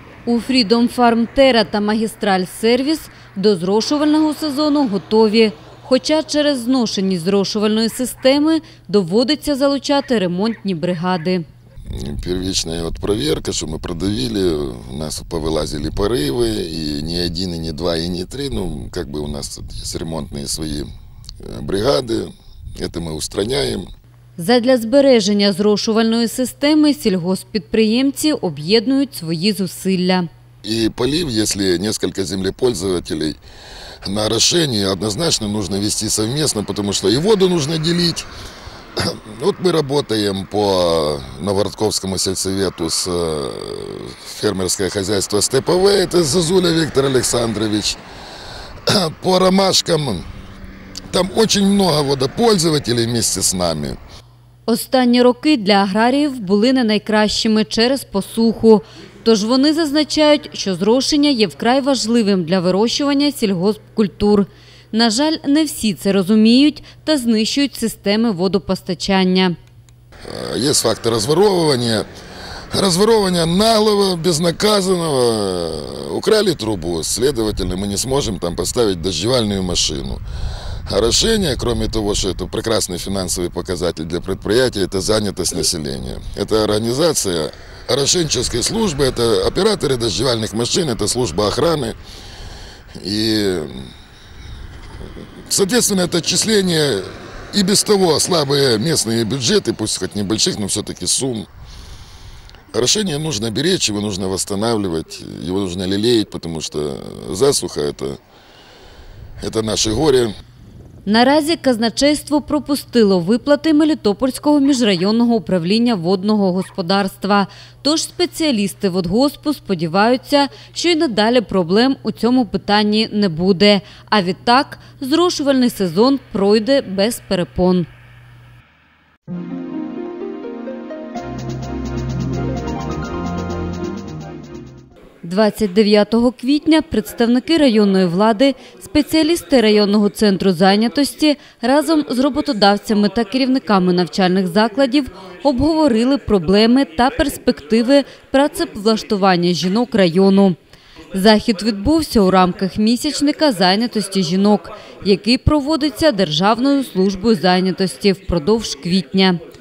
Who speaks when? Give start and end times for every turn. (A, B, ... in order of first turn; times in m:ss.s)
0:00.2-0:11.5 A
0:11.9-0:20.9 B
0:21.4-0:23.9 B
0:24.4-0:30.3 A
0:30.6-0:33.4 B
0:34.0-0:38.3 B
0:39.0-0:48.0 B
0:48.9-0:50.2 B
0:51.1-0:54.0 B
0:54.7-1:09.6 A
1:10.3-1:12.1 B
1:12.7-1:20.2 B
1:20.9-1:32.0 B
1:33.0-1:33.9 B
1:35.5-1:41.5 B
1:42.7-1:48.2 B
1:49.4-1:50.3 B
1:51.1-2:07.9 A
2:15.2-2:30.6 A
2:31.1-2:39.4 A